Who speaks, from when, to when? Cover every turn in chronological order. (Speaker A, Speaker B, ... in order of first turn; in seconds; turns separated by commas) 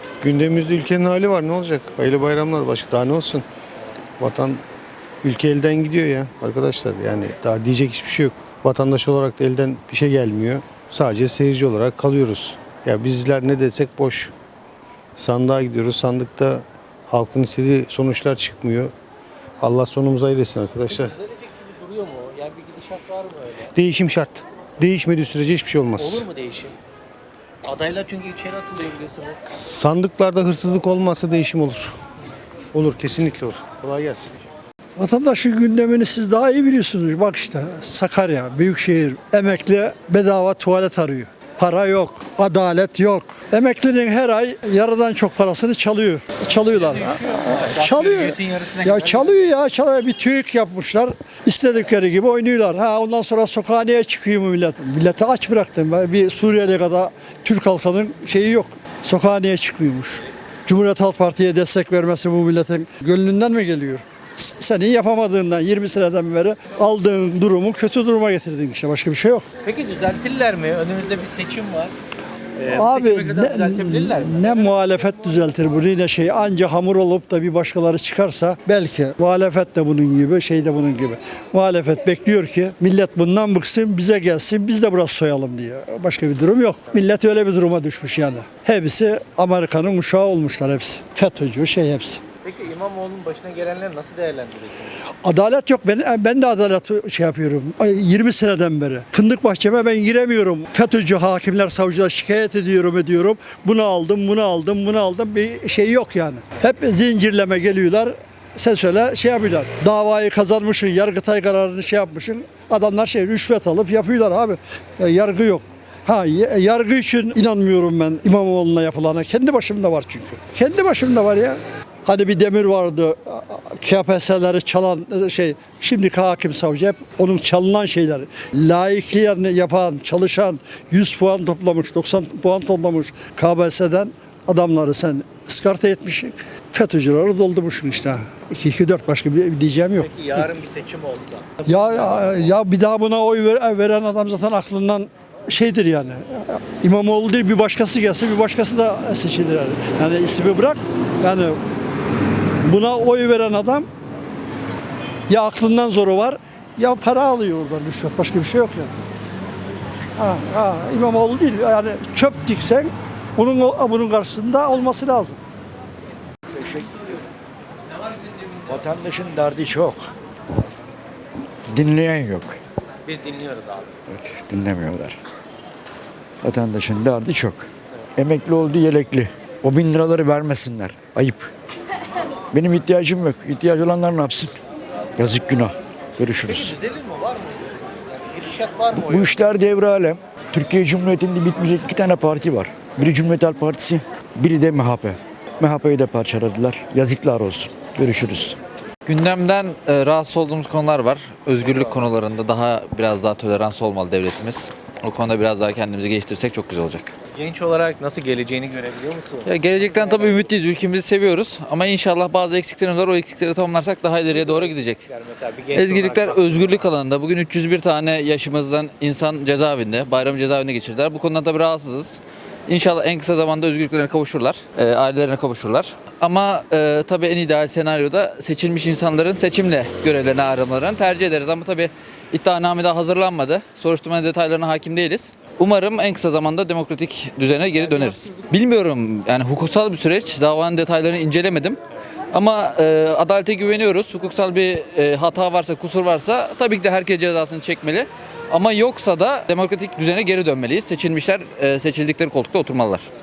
Speaker A: 0.2-3.4, Speaker A: 4.2-4.6, Speaker A: 5.2-14.3, Speaker A: 15.2-18.9, Speaker A: 19.6-21.1, Speaker B: 20.9-23.7, Speaker A: 23.7-26.2, Speaker B: 25.9-26.8, Speaker B: 27.6-29.4, Speaker A: 29.5-31.9, Speaker A: 32.7-34.4, Speaker C: 35.0-69.5, Speaker B: 46.7-49.5, Speaker B: 69.6-71.9, Speaker B: 72.6-74.7, Speaker C: 72.7-92.2, Speaker B: 92.4-94.9, Speaker C: 95.2-140.4, Speaker B: 139.9-142.1, Speaker C: 141.6-151.6, Speaker C: 152.6-153.9, Speaker C: 155.3-158.9, Speaker C: 160.2-165.4, Speaker D: 168.7-170.0, Speaker A: 168.7-169.3, Speaker D: 171.7-172.6, Speaker B: 173.0-173.9, Speaker D: 174.1-175.1, Speaker D: 176.4-177.6, Speaker D: 178.2-181.4, Speaker D: 182.5-184.5, Speaker D: 185.2-186.7, Speaker A: 186.2-186.7, Speaker B: 186.5-189.3, Speaker D: 189.1-198.5, Speaker A: 189.1-189.6, Speaker A: 190.2-190.6, Speaker A: 192.7-193.1, Speaker A: 197.7-198.5, Speaker E: 199.1-207.1, Speaker B: 201.6-201.9, Speaker B: 207.3-210.4, Speaker E: 209.4-215.0, Speaker B: 214.3-216.8, Speaker E: 215.7-241.8, Speaker E: 242.3-253.1